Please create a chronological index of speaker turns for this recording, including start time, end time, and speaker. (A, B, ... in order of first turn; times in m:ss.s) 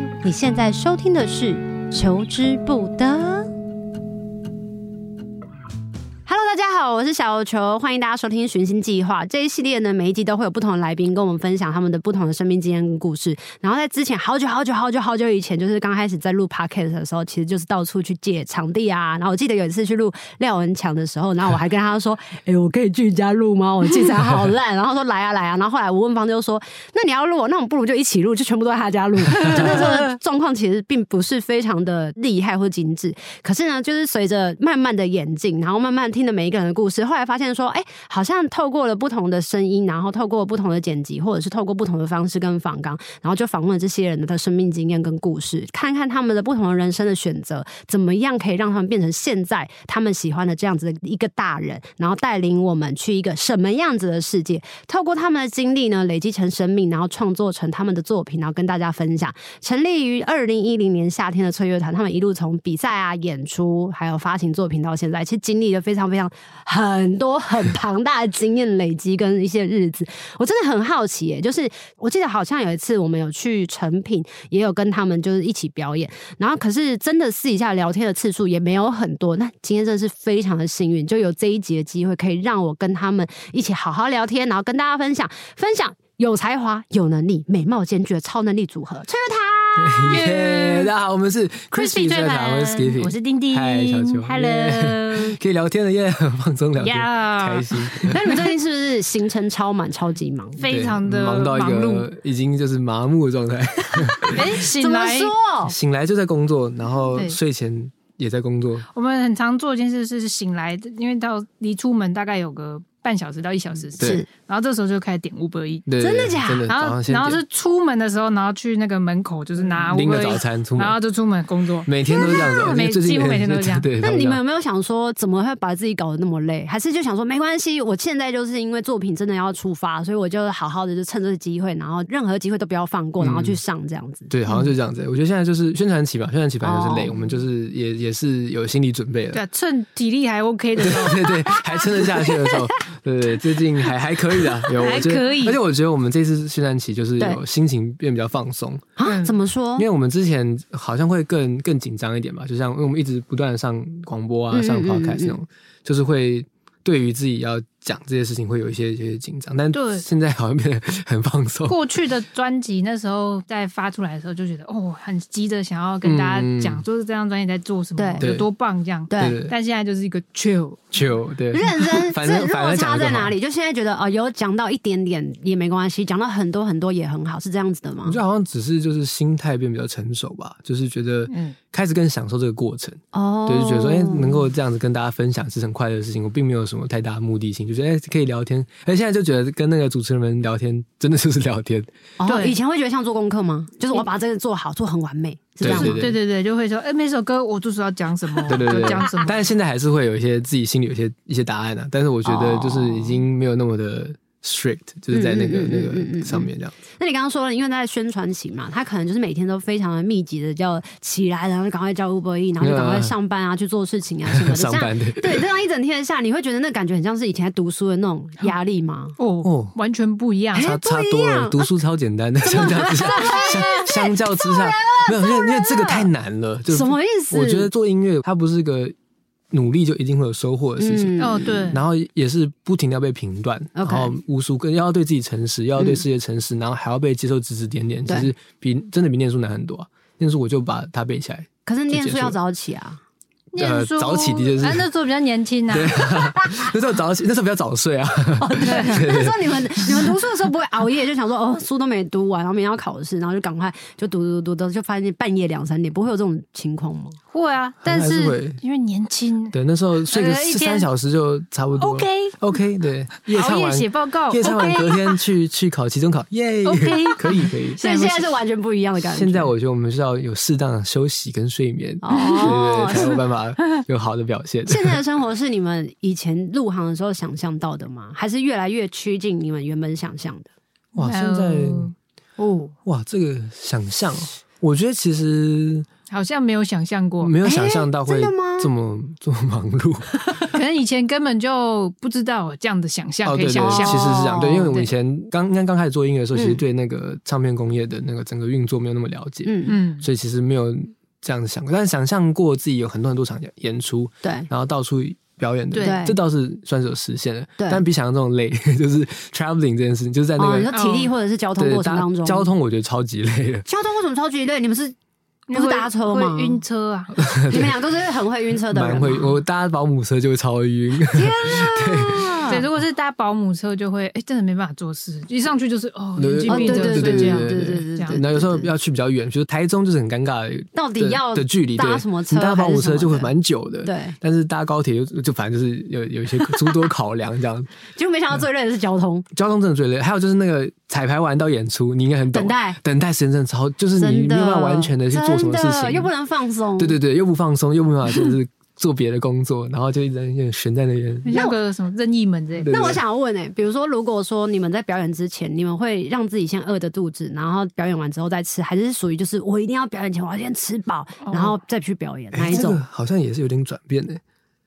0:00.2-0:03.5 A
0:06.2-1:30.2 A
0:29.3-0:30.1 B
0:29.4-0:29.7 C
1:29.8-1:38.4 C
1:30.1-1:30.9 B
1:31.7-1:35.4 B
1:36.8-1:38.1 B
1:38.1-1:40.6 A
1:40.6-1:42.1 B
1:40.6-1:44.6 C
1:44.3-1:45.3 B
1:44.6-1:45.7 A
1:45.7-1:48.9 C
1:48.9-1:55.9 B
1:54.0-1:54.2 C
1:54.0-1:54.3 A
1:55.9-1:57.4 C
1:56.0-1:56.7 A
1:56.7-2:03.9 B
1:59.8-2:01.0 C
2:01.8-2:04.4 C
2:02.1-2:02.4 A
2:04.0-2:14.6 A
2:13.2-2:13.6 C
2:14.3-2:19.4 C
2:16.6-2:17.4 A
2:19.3-2:21.9 B
2:20.8-2:28.9 C
2:24.7-2:25.6 B
2:29.0-2:29.9 A
2:29.0-2:29.3 B
2:29.8-2:41.8 C
2:34.5-2:35.4 A
2:39.7-2:40.0 B
2:41.7-2:51.2 B
2:46.0-2:46.8 C
2:48.0-2:48.2 A
2:48.2-2:48.4 C
2:49.1-2:49.4 A
2:49.2-2:49.5 C
2:50.9-2:53.3 C
2:51.5-2:58.2 A
2:58.0-3:11.9 C
3:01.3-3:01.6 B
3:03.1-3:04.5 A
3:12.2-3:16.1 A
3:12.2-3:12.6 B
3:15.6-3:16.2 C
3:15.6-3:19.5 B
3:18.4-3:26.7 C
3:18.5-3:19.1 A
3:22.2-3:23.2 A
3:25.1-3:39.2 A
3:32.6-3:33.1 C
3:34.3-3:35.4 C
3:39.2-3:40.7 B
3:39.4-3:39.7 C
3:40.5-3:48.9 C
3:40.5-3:41.7 A
3:42.4-3:46.1 A
3:46.7-3:47.7 A
3:49.5-4:02.4 C
3:50.8-3:51.7 A
3:51.2-3:51.8 B
3:53.7-3:54.1 A
4:01.6-4:03.0 A
4:03.5-4:06.3 B
4:03.6-4:04.9 C
4:05.7-4:10.1 C
4:08.4-4:17.2 A
4:17.3-4:19.5 B
4:17.8-4:18.6 C
4:19.5-4:27.8 C
4:20.1-4:20.9 B
4:21.8-4:22.4 B
4:23.3-4:25.2 B
4:26.6-4:28.3 B
4:27.8-4:29.5 A
4:29.1-4:35.0 C
4:32.0-4:33.2 A
4:32.2-4:33.0 B
4:34.6-4:40.5 A
4:40.9-4:41.9 C
4:40.9-4:42.7 B
4:42.8-4:45.9 C
4:46.1-4:47.4 B
4:47.2-4:50.5 C
4:47.4-4:48.7 A
4:50.4-4:54.2 B
4:53.2-5:10.7 C
4:53.6-4:54.9 A
4:56.3-4:56.6 A
4:59.4-4:59.8 A
4:59.7-5:00.1 B
5:04.2-5:04.5 A
5:05.7-5:06.0 B
5:05.8-5:06.1 A
5:07.6-5:07.8 A
5:10.4-5:12.5 A
5:10.7-5:11.1 B
5:11.6-5:13.6 C
5:13.6-5:15.0 A
5:15.5-5:17.2 B
5:15.5-5:16.6 A
5:17.2-5:17.8 C
5:17.5-5:19.4 A
5:18.7-5:22.5 C
5:21.1-5:22.6 A
5:22.4-5:28.2 B
5:26.2-5:37.7 C
5:26.5-5:28.7 A
5:30.7-5:33.3 A
5:33.8-5:34.2 A
5:37.9-5:39.2 A
5:39.3-5:46.1 C
5:42.3-5:42.8 A
5:44.0-5:47.0 A
5:46.8-5:51.4 C
5:51.2-5:52.7 B
5:51.3-5:51.6 A
5:52.6-5:53.0 C
5:52.7-6:02.8 A
6:01.2-6:01.6 B
6:02.3-6:04.2 C